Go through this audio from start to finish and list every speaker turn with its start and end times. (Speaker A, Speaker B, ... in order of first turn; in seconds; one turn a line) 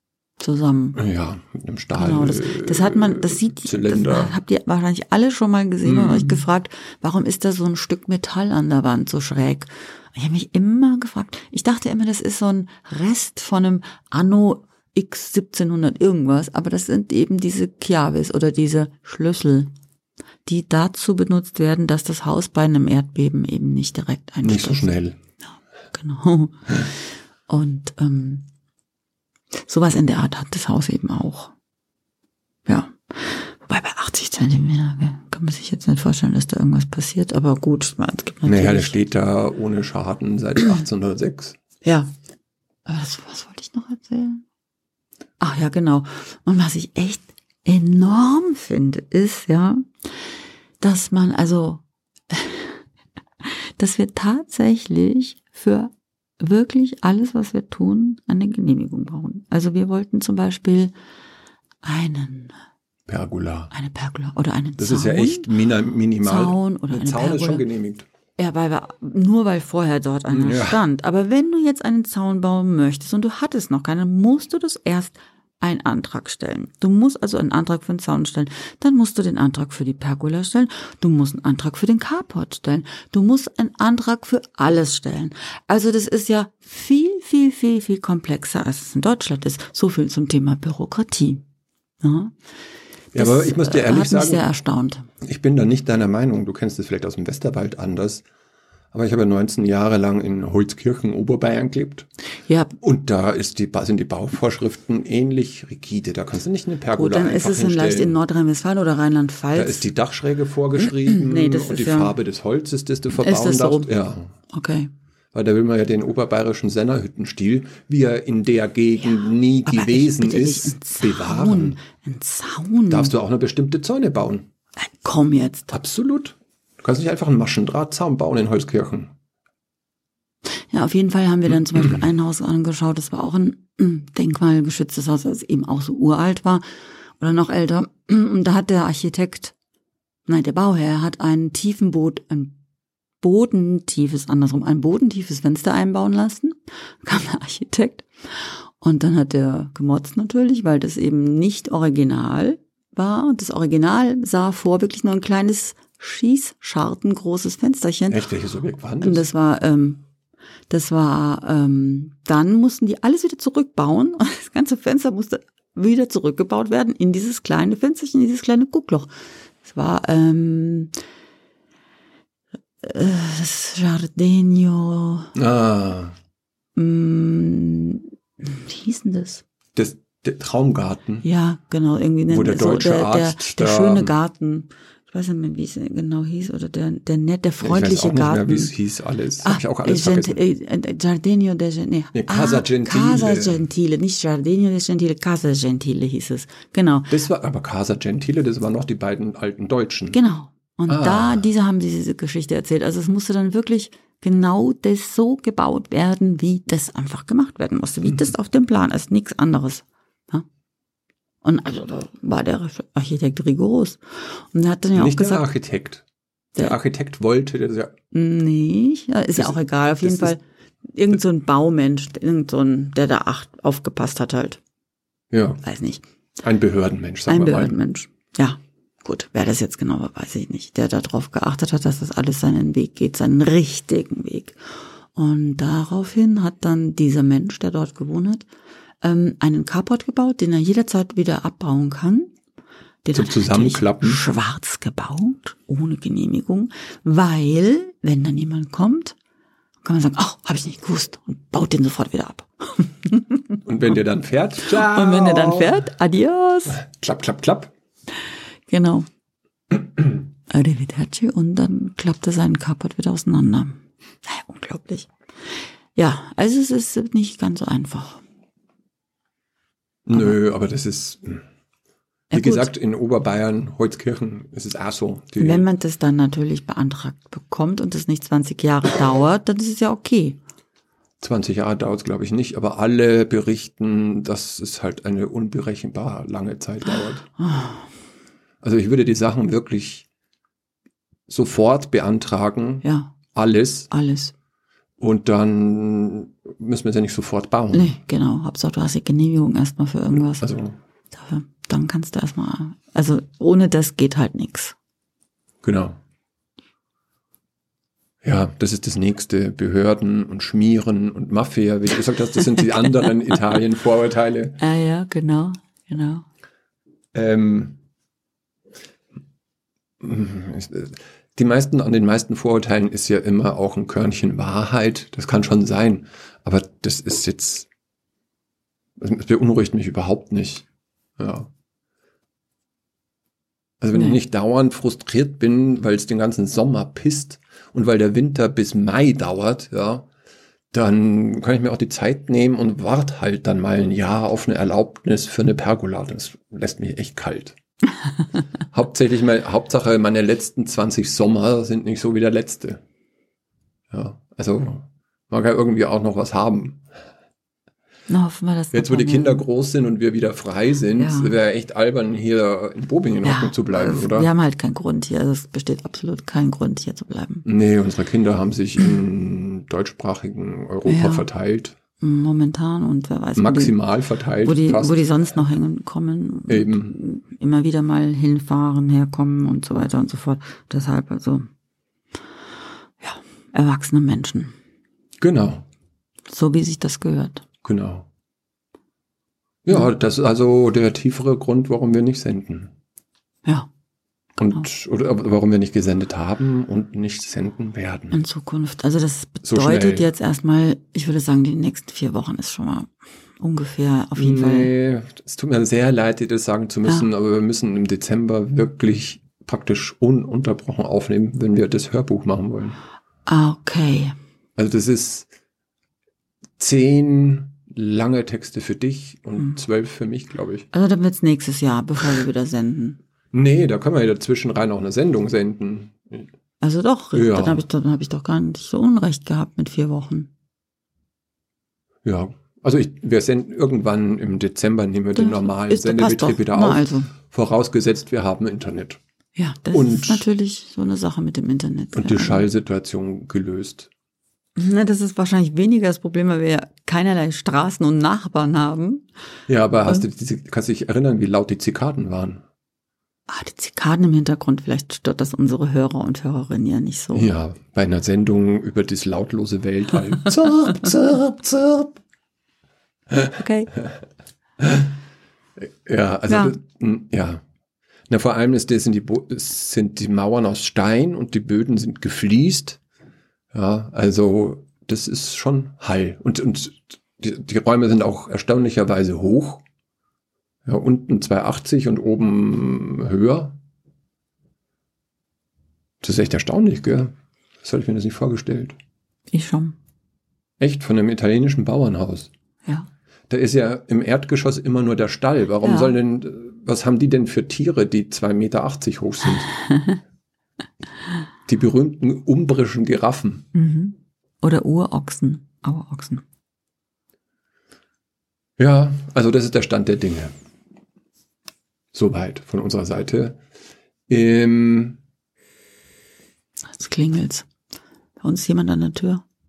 Speaker A: 0.4-1.0
Speaker B: 0.9-4.3
Speaker A: 1.9-19.7
Speaker B: 5.8-6.4
Speaker A: 20.4-24.9
Speaker B: 24.4-25.2
Speaker A: 25.9-26.9
Speaker A: 27.5-28.4
Speaker A: 29.6-31.5
Speaker A: 32.6-39.0
Speaker B: 38.4-41.6
Speaker A: 41.8-42.1
Speaker A: 42.9-44.4
Speaker A: 45.4-50.1
Speaker A: 50.8-52.8
Speaker A: 53.4-60.9
Speaker A: 61.8-62.5
Speaker B: 63.1-63.7
Speaker A: 63.7-65.5
Speaker B: 64.8-68.0
Speaker A: 66.2-67.6
Speaker A: 68.4-91.4
Speaker B: 70.3-70.8
Speaker A: 92.0-92.3
Speaker B: 93.1-94.4
Speaker A: 93.1-95.0
Speaker B: 95.2-98.2
Speaker B: 98.9-102.1
Speaker A: 102.5-102.7
Speaker B: 102.8-108.2
Speaker A: 106.9-109.9
Speaker B: 109.5-114.3
Speaker A: 110.8-112.1
Speaker A: 113.2-113.9
Speaker A: 114.5-114.9
Speaker B: 115.3-121.8
Speaker A: 119.7-123.1
Speaker B: 122.9-124.5
Speaker A: 124.8-125.7
Speaker B: 125.7-129.1
Speaker A: 130.7-136.6
Speaker A: 137.2-139.5
Speaker A: 140.3-142.5
Speaker A: 143.2-158.2
Speaker B: 158.1-159.3
Speaker A: 159.0-160.0
Speaker A: 160.7-169.1
Speaker A: 169.6-170.9
Speaker A: 172.8-175.3
Speaker B: 175.3-176.1
Speaker A: 176.8-179.4
Speaker B: 179.7-181.2
Speaker A: 181.2-188.7
Speaker B: 182.3-184.1
Speaker B: 187.6-190.4
Speaker A: 189.4-197.1
Speaker B: 192.1-193.6
Speaker B: 197.1-200.2
Speaker A: 200.1-210.4
Speaker B: 200.9-201.4
Speaker A: 211.4-215.4
Speaker B: 214.9-216.0
Speaker B: 216.6-217.9
Speaker A: 218.1-224.6
Speaker B: 219.4-220.3
Speaker B: 225.3-225.6
Speaker A: 225.6-226.0
Speaker B: 226.4-227.8
Speaker A: 227.3-234.6
Speaker A: 235.1-238.4
Speaker A: 239.0-242.3
Speaker A: 243.0-249.2
Speaker B: 243.1-244.2
Speaker A: 249.8-253.6
Speaker B: 253.6-255.8
Speaker A: 254.6-256.8
Speaker B: 256.7-257.7
Speaker A: 258.7-259.1
Speaker A: 260.5-265.1
Speaker A: 265.9-268.2
Speaker B: 270.1-271.4
Speaker A: 272.3-272.7
Speaker B: 272.3-275.6
Speaker A: 275.4-280.4
Speaker B: 281.2-287.3
Speaker A: 287.4-287.8
Speaker B: 288.6-290.1
Speaker B: 291.3-293.9
Speaker A: 292.8-293.2
Speaker A: 293.9-294.3
Speaker B: 295.0-298.0
Speaker A: 297.7-300.4
Speaker B: 300.4-300.8
Speaker A: 301.1-304.7
Speaker B: 305.6-306.0
Speaker B: 308.2-314.6
Speaker A: 314.6-316.2
Speaker B: 317.1-317.8
Speaker B: 320.0-327.7
Speaker B: 329.0-330.6
Speaker B: 331.2-331.5
Speaker B: 333.8-340.1
Speaker B: 340.7-347.6
Speaker B: 348.7-352.8
Speaker B: 353.9-356.8
Speaker A: 358.1-359.4
Speaker B: 358.7-364.3
Speaker A: 360.9-361.3
Speaker A: 363.2-367.4
Speaker B: 367.4-371.7
Speaker A: 370.9-371.2
Speaker A: 372.0-373.8
Speaker B: 373.4-375.1
Speaker A: 374.4-381.5
Speaker B: 376.5-377.0
Speaker A: 383.0-384.5
Speaker B: 385.2-385.6
Speaker A: 386.3-387.4
Speaker B: 387.6-388.1
Speaker B: 389.6-392.7
Speaker B: 394.4-398.2
Speaker A: 398.1-404.7
Speaker B: 399.4-400.0
Speaker B: 404.1-412.8
Speaker A: 413.2-414.1
Speaker B: 414.6-415.3
Speaker B: 416.6-420.7
Speaker A: 420.7-423.0
Speaker B: 423.3-426.3
Speaker A: 426.6-430.3
Speaker B: 427.1-427.6
Speaker B: 432.0-439.0
Speaker A: 435.1-437.1
Speaker A: 439.3-442.4
Speaker B: 439.7-440.2
Speaker B: 441.9-443.9
Speaker A: 444.6-449.1
Speaker B: 449.5-452.4
Speaker A: 453.3-457.3
Speaker B: 457.1-462.0
Speaker B: 463.1-463.9
Speaker A: 463.4-463.7
Speaker B: 464.6-464.9
Speaker B: 465.6-467.4
Speaker A: 466.3-466.6
Speaker B: 468.1-472.8
Speaker B: 473.5-479.6
Speaker B: 480.6-483.6
Speaker B: 486.0-488.8
Speaker A: 489.3-489.8
Speaker B: 490.6-492.3
Speaker B: 493.3-499.6
Speaker A: 495.6-495.9
Speaker B: 501.5-503.5
Speaker A: 503.5-506.2
Speaker B: 508.6-510.3
Speaker B: 511.9-513.4
Speaker B: 514.1-515.0
Speaker A: 516.7-517.5
Speaker A: 518.2-519.2